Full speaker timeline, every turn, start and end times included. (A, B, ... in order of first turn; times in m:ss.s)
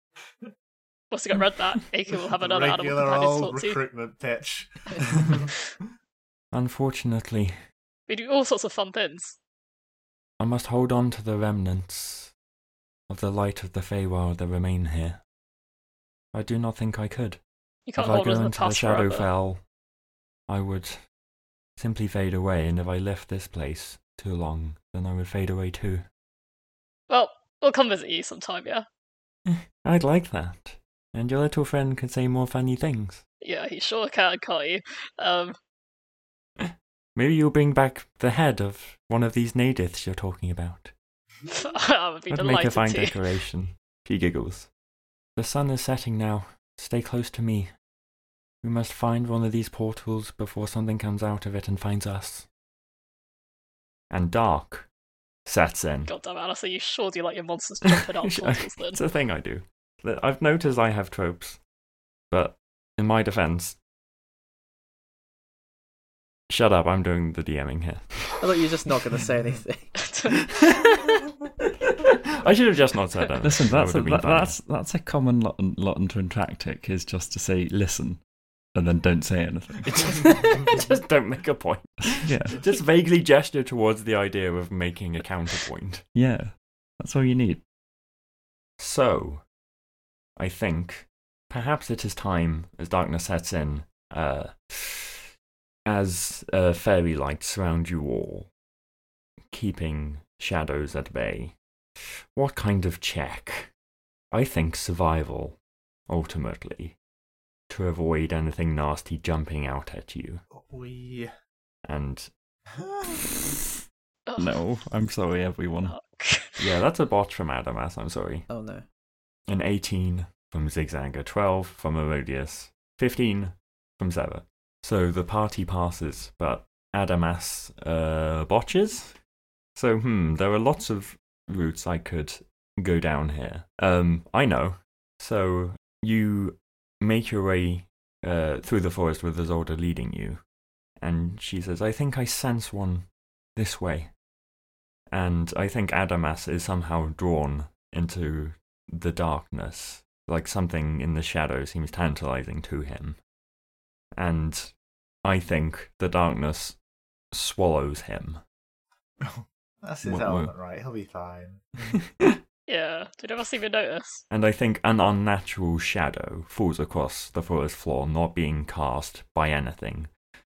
0:01.1-0:03.8 A
0:02.4-0:05.5 B
0:06.5-0:07.6 C
0:08.1-0:09.4 A
0:10.4-0:12.3 C
0:13.1-0:15.2 C
0:16.3-0:17.4 C
0:17.9-0:19.2 A
0:18.0-0:19.6 C
0:20.5-0:21.0 C
0:21.8-0:26.0 C
0:27.1-0:28.8 A
0:29.5-0:33.2 C
0:33.4-0:35.6 A
0:36.6-0:40.9 C
0:41.5-0:43.2 A
0:42.3-0:44.7 C
0:45.4-0:47.7 C
0:48.6-0:52.5 C
0:54.1-0:54.9 C
0:55.4-0:56.1 C
0:56.0-0:59.0 A
0:57.9-1:01.6 C
1:02.3-1:03.8 C
1:06.5-1:08.4 C
1:08.4-1:10.0 D
1:10.0-1:11.1 A
1:12.4-1:14.6 C
1:13.4-1:18.2 E
1:18.7-1:20.8 E
1:20.5-1:26.0 C
1:22.1-1:22.6 E
1:26.1-1:27.6 E
1:28.8-1:29.4 C
1:30.4-1:35.3 C
1:35.8-1:38.5 C
1:39.5-1:43.7 C
1:44.3-1:47.0 C
1:47.7-1:50.4 C
1:50.5-1:51.3 B
1:51.8-1:52.3 C
1:52.8-1:53.2 B
1:54.3-1:54.6 A
1:54.4-1:55.9 E
1:55.8-1:56.6 A
1:56.6-1:58.4 C
1:58.5-1:58.8 D
1:59.5-2:09.2 C
2:09.8-2:20.4 C
2:21.0-2:24.1 C
2:25.1-2:33.2 C
2:34.1-2:34.7 C
2:35.2-2:36.8 C
2:37.3-2:38.4 C
2:39.2-2:42.0 B
2:40.0-2:40.5 E
2:42.7-2:44.2 A
2:44.3-2:50.1 C